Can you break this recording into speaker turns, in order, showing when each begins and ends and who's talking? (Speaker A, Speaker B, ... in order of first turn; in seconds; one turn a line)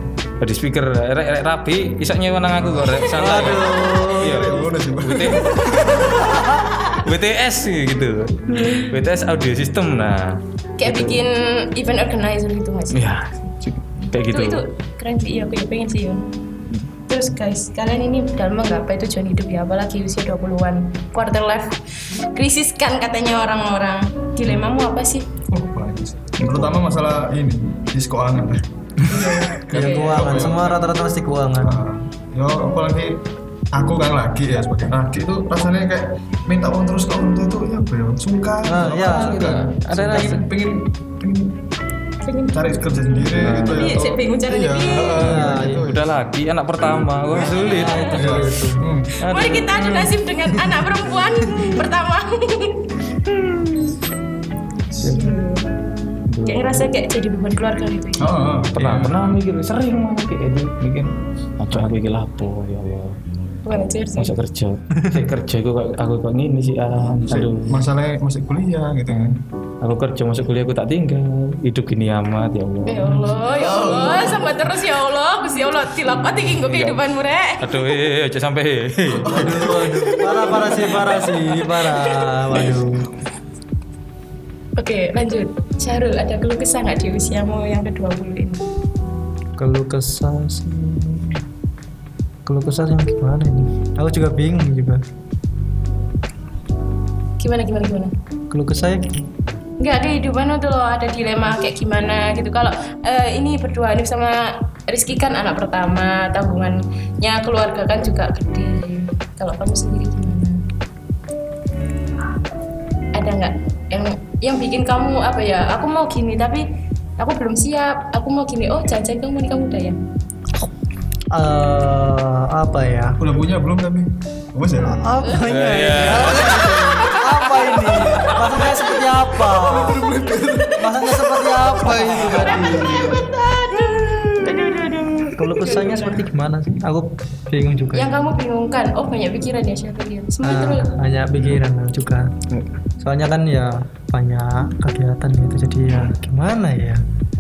Speaker A: 0.4-11.2
Speaker B: 2.6-3.5
Speaker C: 3.1-4.6
Speaker B: 4.2-6.3
Speaker C: 6.3-6.6
Speaker D: 10.8-13.1
Speaker A: 12.9-14.6
Speaker D: 14.2-16.2
Speaker D: 17.1-21.8
Speaker D: 22.3-25.3
Speaker B: 25.5-30.9
Speaker A: 26.4-26.8
Speaker D: 29.1-30.4
Speaker A: 29.1-29.6
Speaker C: 29.7-31.8
Speaker B: 31.6-41.6
Speaker C: 38.6-40.5
Speaker A: 39.0-40.5
Speaker D: 42.2-42.7
Speaker B: 42.5-46.1
Speaker A: 43.2-44.0
Speaker D: 43.6-45.2
Speaker C: 45.2-45.9
Speaker A: 45.2-48.2
Speaker C: 47.5-48.9
Speaker D: 47.8-48.1
Speaker B: 48.1-49.1
Speaker A: 49.2-50.1
Speaker D: 49.2-53.0
Speaker A: 53.3-54.0
Speaker D: 54.9-55.7
Speaker A: 55.0-55.4
Speaker A: 56.3-56.9
Speaker D: 56.5-58.3
Speaker B: 58.2-59.3
Speaker A: 58.7-63.1
Speaker D: 63.6-64.3
Speaker A: 64.2-67.9
Speaker B: 67.3-69.4
Speaker A: 69.1-73.2
Speaker D: 72.9-77.6
Speaker B: 73.4-74.6
Speaker A: 76.4-77.0
Speaker A: 77.6-81.1
Speaker B: 79.2-79.9
Speaker C: 79.2-83.1
Speaker D: 80.5-81.8
Speaker D: 84.8-88.6
Speaker C: 89.6-91.4
Speaker C: 92.5-95.0
Speaker D: 97.4-98.1
Speaker C: 98.5-99.3
Speaker D: 99.8-110.6
Speaker D: 113.1-116.6
Speaker D: 117.2-120.0
Speaker C: 121.3-123.2
Speaker B: 123.2-125.1
Speaker C: 124.8-130.1
Speaker A: 125.4-128.5
Speaker D: 126.3-127.5
Speaker D: 128.2-128.7
Speaker B: 129.5-133.2
Speaker C: 130.8-133.1
Speaker D: 131.8-136.2
Speaker C: 135.4-138.3
Speaker D: 137.9-140.9
Speaker C: 140.4-142.3
Speaker C: 143.0-147.0